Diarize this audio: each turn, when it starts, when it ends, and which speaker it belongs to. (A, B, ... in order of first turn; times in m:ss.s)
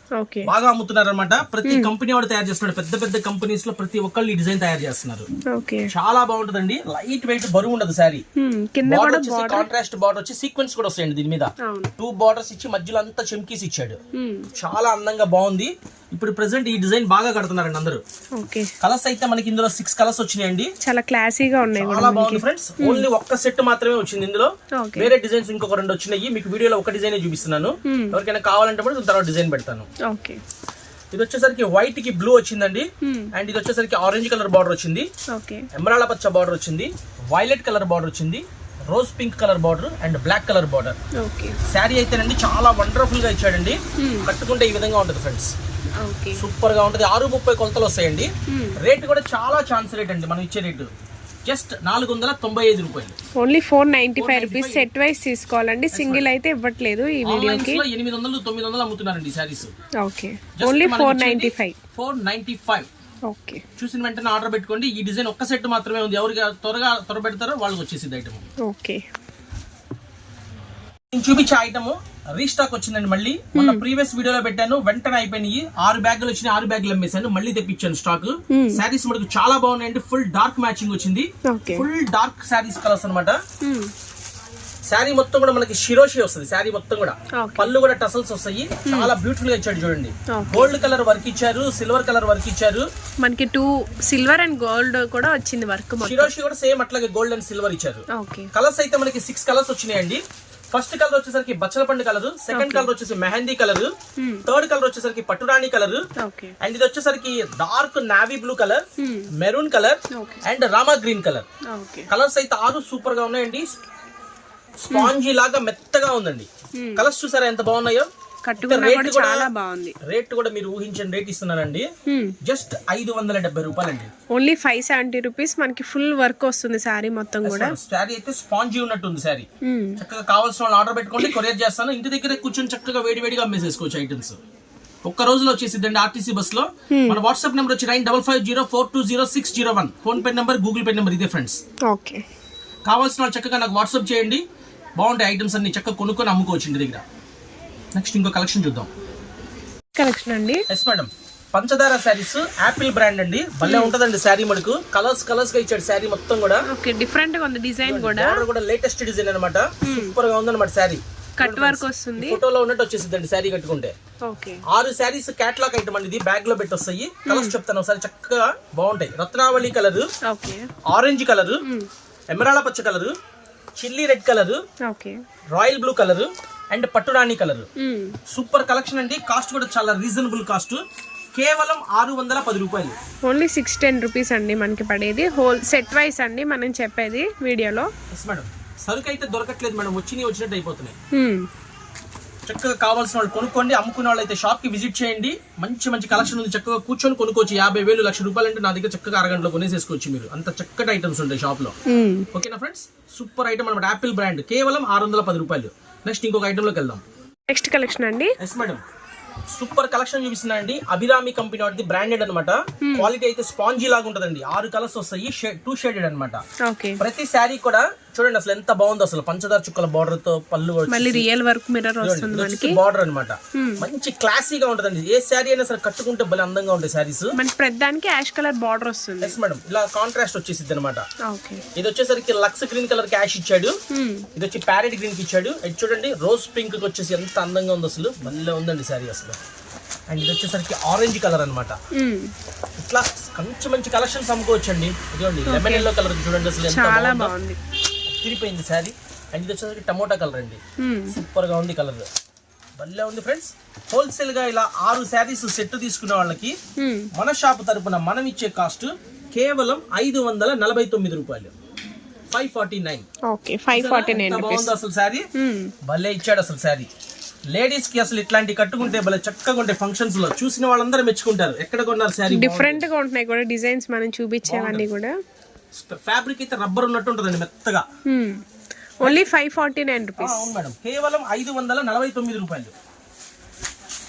0:00.2-0:00.5 A
0:00.5-0:05.3 B
0:01.6-0:01.9 A
0:05.5-0:05.9 A
0:05.9-0:08.2 B
0:08.4-0:09.7 A
0:08.8-0:14.0 B
0:11.6-0:11.9 A
0:14.2-0:14.5 A
0:14.5-0:18.0 B
0:18.4-0:18.7 A
0:18.8-0:20.7 B
0:20.8-0:23.1 A
0:21.8-0:29.9 B
0:24.8-0:25.1 A
0:27.9-0:28.2 A
0:30.0-0:30.4 A
0:31.1-0:35.1 B
0:33.0-0:33.3 A
0:35.3-0:35.7 A
0:35.7-0:41.0 B
0:41.2-0:41.6 A
0:41.7-0:45.5 B
0:44.0-0:44.3 A
0:46.0-0:46.4 A
0:46.4-0:50.9 B
0:48.5-0:48.8 A
0:51.5-0:53.2 B
0:53.4-0:57.8 A
0:54.2-0:54.8 B
0:55.9-0:56.3 B
0:57.3-0:59.7 B
1:00.0-1:01.8 A
1:00.6-1:02.9 B
1:03.3-1:03.6 A
1:03.8-1:08.5 B
1:08.6-1:09.0 A
1:11.1-1:23.4 B
1:13.6-1:13.8 A
1:18.5-1:18.8 A
1:21.4-1:21.9 A
1:23.6-1:23.9 A
1:24.9-1:32.8 B
1:27.4-1:27.7 A
1:28.9-1:29.1 A
1:30.3-1:30.8 A
1:33.2-1:36.3 A
1:36.0-1:40.2 B
1:38.1-1:38.5 A
1:40.7-1:43.9 B
1:42.5-1:42.9 A
1:44.2-1:44.4 A
1:44.5-1:46.0 B
1:46.2-1:46.6 A
1:46.6-1:48.8 B
1:49.0-1:49.3 A
1:49.4-1:51.5 B
1:50.1-1:50.4 A
1:51.7-1:52.1 A
1:52.1-1:53.7 B
1:54.8-1:58.1 B
1:56.8-1:57.1 A
1:58.4-2:00.0 A
1:58.6-1:59.5 B
2:00.0-2:01.9 B
2:02.1-2:02.4 A
2:02.4-2:04.1 B
2:04.3-2:07.8 A
2:07.4-2:09.5 B
2:09.6-2:10.0 A
2:10.0-2:14.4 B
2:15.0-2:21.6 B
2:16.9-2:17.2 A
2:21.9-2:22.2 A
2:22.9-2:24.4 B
2:25.0-2:27.0 B
2:27.9-2:28.9 B
2:30.0-2:30.6 A
2:30.7-2:36.7 B
2:33.6-2:34.0 A
2:36.7-2:38.4 A
2:37.8-2:43.9 B
2:39.8-2:40.2 A
2:41.4-2:42.4 A
2:44.3-2:44.6 A
2:44.7-2:50.1 B
2:47.3-2:47.6 A
2:50.3-2:50.7 A
2:50.9-2:51.6 B
2:51.6-2:51.9 A
2:52.3-2:53.1 B
2:53.8-2:54.6 B
2:54.8-2:55.2 A
2:55.5-2:57.7 B
2:57.8-2:58.2 A
2:58.3-3:00.8 B
3:01.4-3:03.0 B
3:03.2-3:07.9 A
3:08.1-3:11.0 B
3:11.1-3:11.5 A
3:12.5-3:21.8 B
3:21.9-3:22.3 A
3:22.3-3:27.0 B
3:27.5-3:28.4 A
3:28.4-3:28.8 B
3:29.5-3:36.4 B
3:32.8-3:33.1 A
3:36.6-3:37.0 A
3:37.0-3:41.2 B
3:40.9-3:42.8 A
3:42.0-3:47.3 B
3:43.5-3:43.9 A
3:47.3-3:49.4 A
3:49.2-3:51.0 B
3:51.2-3:51.6 A
3:51.8-3:53.8 B
3:53.9-3:54.3 A
3:54.4-3:59.4 B
4:00.1-4:01.8 B
4:01.9-4:02.3 A
4:02.8-4:07.3 B
4:05.5-4:05.9 A
4:06.7-4:07.6 A
4:08.1-4:12.1 B
4:10.8-4:11.2 A
4:12.8-4:16.6 B
4:16.8-4:17.1 A
4:17.2-4:21.5 B
4:22.3-4:23.0 B
4:23.3-4:24.7 A
4:23.7-4:25.3 B
4:25.4-4:25.7 A
4:25.8-4:26.9 B
4:27.5-4:32.8 B
4:32.3-4:35.2 A
4:34.5-4:34.8 B
4:35.7-4:37.8 B
4:38.1-4:38.4 A
4:39.0-4:40.5 A
4:39.0-4:39.3 B
4:40.2-4:42.7 B